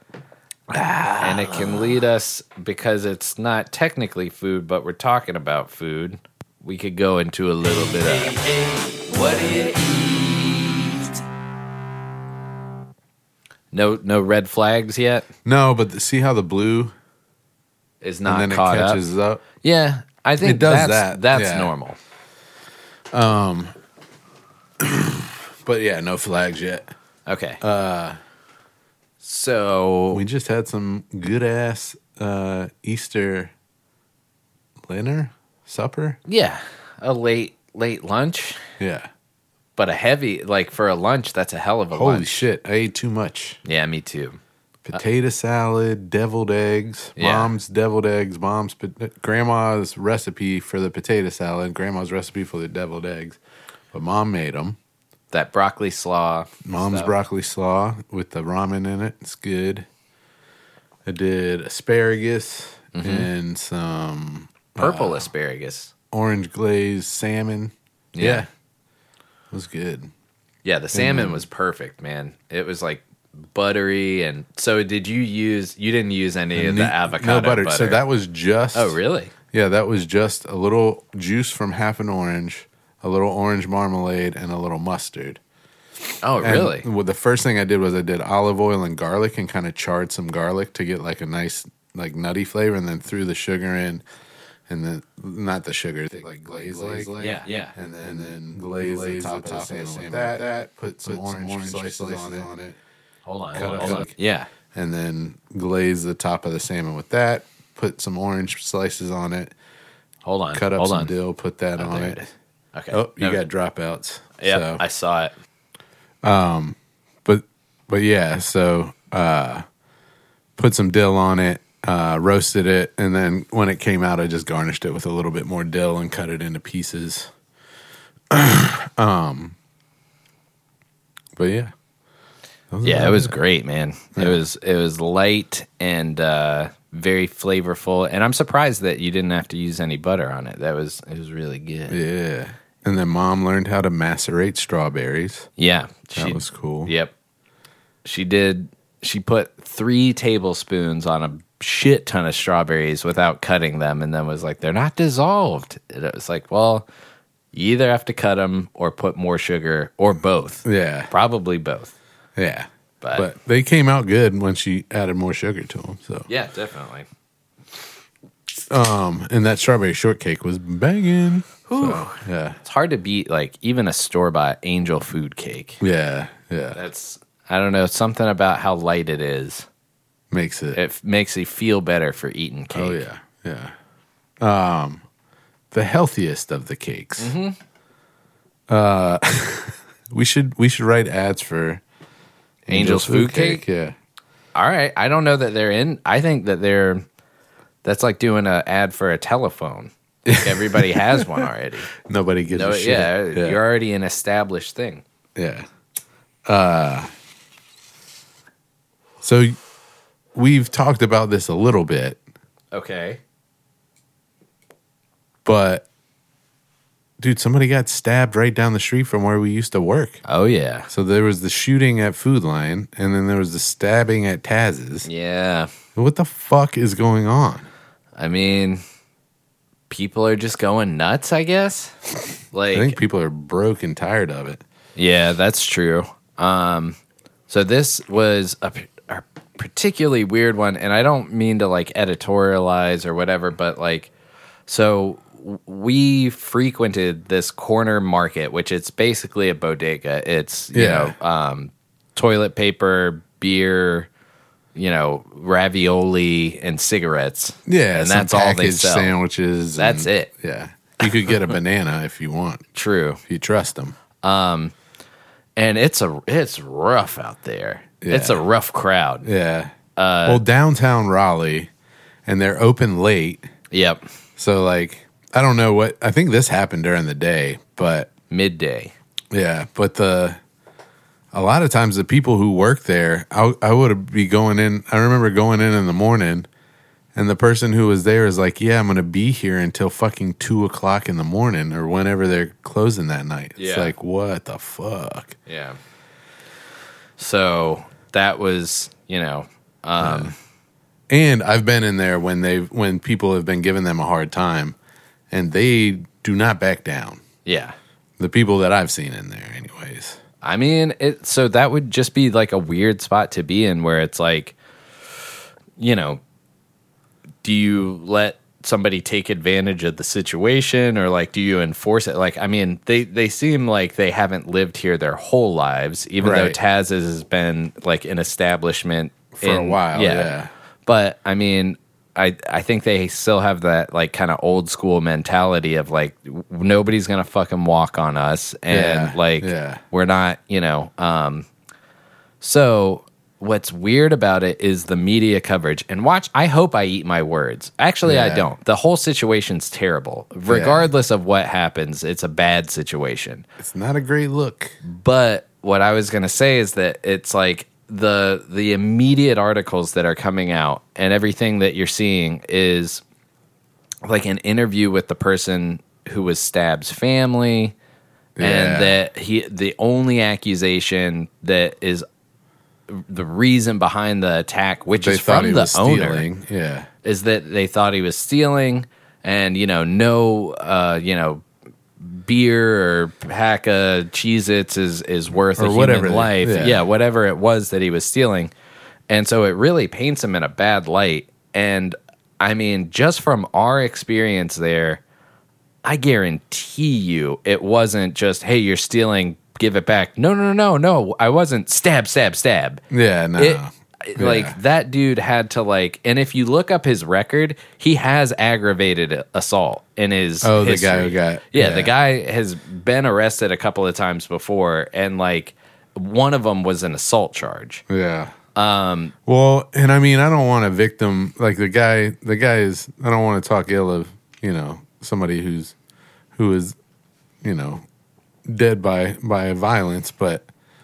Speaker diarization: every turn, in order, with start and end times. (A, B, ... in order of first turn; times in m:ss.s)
0:00.7-0:02.0 A
0:01.2-0:11.2 B
0:13.7-0:15.3 B
0:15.4-0:16.9 A
0:18.0-0:19.0 B
0:18.2-0:19.4 A
0:19.6-0:22.0 B
0:20.4-0:21.7 A
0:23.1-0:23.7 A
0:24.8-0:26.9 A
0:27.2-0:27.6 B
0:27.6-0:28.2 A
0:29.2-0:30.2 B
0:30.1-0:33.5 A
0:34.8-0:36.2 A
0:36.2-0:38.6 B
0:38.8-0:39.1 A
0:39.8-0:42.4 B
0:41.9-0:43.6 A
0:43.6-0:44.4 B
0:44.8-0:53.4 A
0:47.2-0:47.5 B
0:53.9-0:54.8 A
0:55.3-0:57.1 B
0:56.6-0:59.9 A
1:01.0-1:05.3 A
1:02.9-1:03.3 B
1:04.8-1:05.9 B
1:06.1-1:08.5 A
1:08.1-1:08.5 B
1:09.5-1:10.1 A
1:10.6-1:18.0 B
1:10.9-1:11.4 A
1:16.5-1:19.0 A
1:18.7-1:19.3 B
1:19.5-1:25.4 A
1:26.2-1:26.8 B
1:26.4-1:34.0 A
1:34.7-1:42.8 A
1:37.2-1:37.7 B
1:43.2-1:44.5 B
1:43.5-1:44.1 A
1:44.7-1:49.5 A
1:50.2-1:51.1 B
1:50.5-1:52.2 A
1:51.8-1:53.4 B
1:52.9-1:54.8 A
1:54.4-1:55.3 B
1:56.2-1:59.6 A
2:00.6-2:07.3 A
2:08.3-2:09.6 A
2:11.4-2:11.7 A
2:12.7-2:13.3 A
2:12.8-2:22.0 B
2:14.2-2:14.4 A
2:21.9-2:25.5 A
2:25.6-2:27.1 B
2:26.2-2:26.9 A
2:28.0-2:36.8 B
2:37.5-2:41.9 B
2:40.6-2:41.1 A
2:42.4-2:46.3 A
2:43.0-2:43.3 B
2:46.3-2:47.1 B
2:48.7-2:52.6 A
2:51.7-2:55.8 B
2:55.8-2:56.8 A
2:56.7-2:59.6 B
3:00.3-3:00.8 A
3:00.7-3:03.0 B
3:02.7-3:03.7 A
3:04.4-3:05.0 A
3:05.7-3:07.3 A
3:07.2-3:07.6 B
3:08.7-3:11.8 A
3:12.7-3:14.0 A
3:12.7-3:13.6 B
3:14.5-3:17.0 B
3:17.8-3:21.9 B
3:20.3-3:21.4 A
3:22.0-3:23.6 A
3:22.5-3:25.0 B
3:25.4-3:25.6 A
3:26.4-3:27.1 A
3:29.2-3:29.6 A
3:30.3-3:32.2 A
3:32.7-3:33.2 B
3:35.4-3:35.8 A
3:37.2-3:40.2 A
3:40.2-3:40.9 B
3:40.9-3:45.1 A
3:45.0-3:45.7 B
3:45.9-3:47.7 A
3:48.2-3:48.8 B
3:49.9-3:52.0 B
3:52.5-3:53.0 B
3:52.7-3:54.6 A
3:55.0-3:57.0 B
3:57.5-4:04.1 B
4:04.7-4:14.1 B
4:10.7-4:11.1 A
4:14.7-4:19.1 B
4:17.7-4:22.6 A
4:19.8-4:20.3 B
4:22.7-4:23.2 B
4:23.2-4:24.0 A
4:24.2-4:24.7 B
4:25.6-4:29.3 B
4:28.0-4:28.4 A
4:29.2-4:29.7 A
4:30.0-4:30.4 B
4:30.2-4:31.7 A
4:32.2-4:33.4 A
4:33.7-4:34.0 B
4:34.4-4:38.1 A
4:38.3-4:38.9 B
4:39.3-4:40.4 A
4:41.3-4:46.5 A
4:47.1-4:55.4 A
4:53.6-4:53.9 B
4:55.4-4:55.8 B
4:57.2-5:00.3 B
5:00.0-5:00.3 A
5:01.1-5:04.8 A
5:05.3-5:07.2 A
5:07.4-5:07.7 B
5:08.2-5:10.2 A
5:10.4-5:14.6 B
5:15.8-5:16.2 B
5:17.4-5:41.5 B
5:26.2-5:26.6 A
5:29.3-5:30.5 A
5:38.7-5:39.8 A
5:42.4-5:53.4 B
5:48.0-5:48.5 A
5:50.5-5:50.9 A
5:53.6-5:54.8 A
5:54.8-6:03.0 B
6:04.0-6:07.7 B
6:08.4-6:09.0 A
6:08.4-6:12.0 B
6:12.9-6:16.2 B
6:14.9-6:16.9 A
6:17.0-6:21.4 B
6:22.0-6:28.5 B
6:25.5-6:26.8 A
6:29.1-6:35.0 B
6:35.8-6:42.8 B
6:42.9-6:44.6 A
6:43.4-6:57.8 B
6:50.4-6:51.9 A
6:57.9-6:58.3 A
6:58.6-6:59.1 B
6:59.2-7:05.7 A
7:06.3-7:06.8 A
7:07.4-7:07.8 A
7:08.4-7:10.5 A